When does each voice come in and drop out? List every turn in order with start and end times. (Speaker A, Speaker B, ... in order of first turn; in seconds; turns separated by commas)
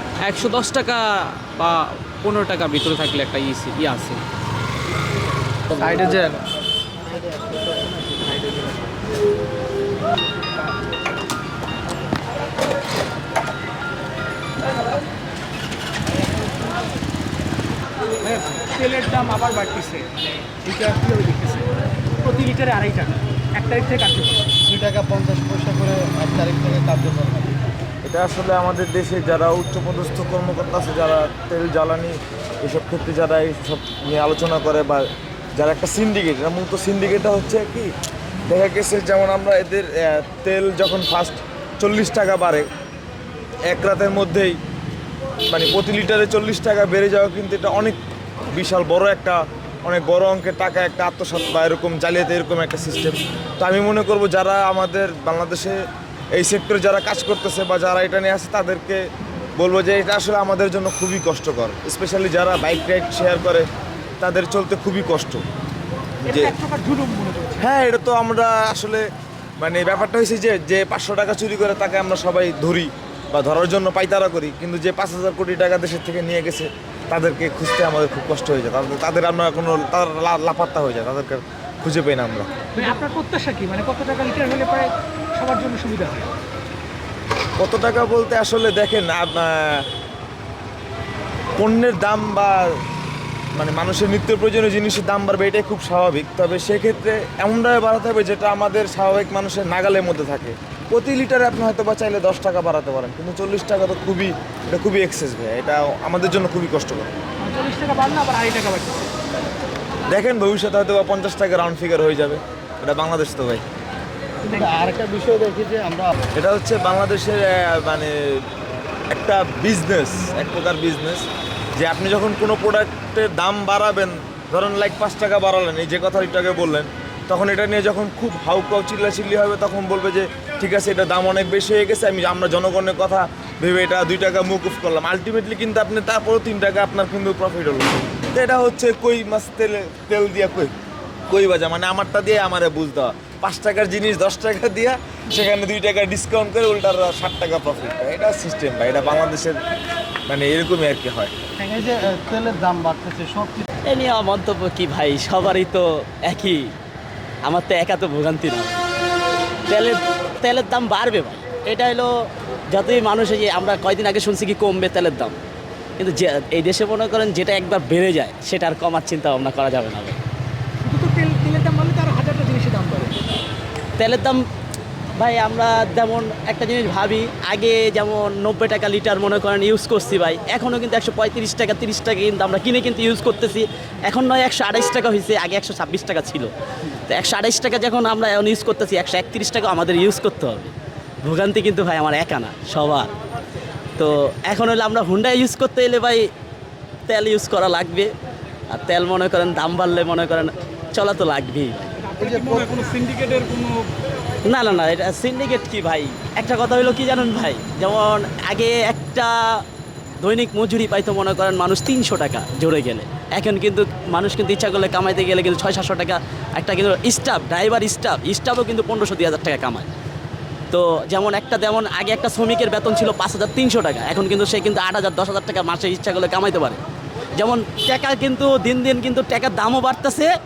Speaker A: 0.2-4.2, Speaker A: 5.7-6.2, Speaker B: 18.2-20.1, Speaker B: 20.6-21.7, Speaker B: 22.2-24.5, Speaker C: 24.6-27.6, Speaker D: 28.1-37.9, Speaker D: 38.5-42.7, Speaker D: 43.7-44.6, Speaker D: 45.5-48.0, Speaker D: 48.5-55.8, Speaker D: 56.3-59.0, Speaker D: 59.6-63.7, Speaker D: 64.2-65.4, Speaker B: 66.2-67.7, Speaker D: 66.3-66.5, Speaker D: 67.6-69.0, Speaker D: 69.6-83.0, Speaker B: 82.8-86.3, Speaker D: 87.6-89.8, Speaker D: 91.6-92.7, Speaker D: 93.5-107.1, Speaker B: 107.4-109.1, Speaker D: 110.1-113.6, Speaker C: 114.4-116.1, Speaker B: 114.4-114.9, Speaker D: 116.3-118.4, Speaker D: 119.1-140.7, Speaker D: 141.3-149.6, Speaker D: 150.3-151.3, Speaker C: 151.6-153.7, Speaker E: 153.9-156.7, Speaker E: 157.4-158.8, Speaker E: 159.7-162.1, Speaker E: 162.7-165.3, Speaker E: 166.0-170.2, Speaker B: 170.8-173.2, Speaker E: 174.0-174.4, Speaker E: 175.2-186.5, Speaker E: 187.1-190.7, Speaker E: 191.2-193.1, Speaker E: 194.0-196.2, Speaker E: 197.1-198.1, Speaker E: 198.7-202.0, Speaker B: 202.1-202.9, Speaker E: 204.5-209.6, Speaker E: 210.2-219.9, Speaker E: 220.7-226.8, Speaker E: 227.4-230.3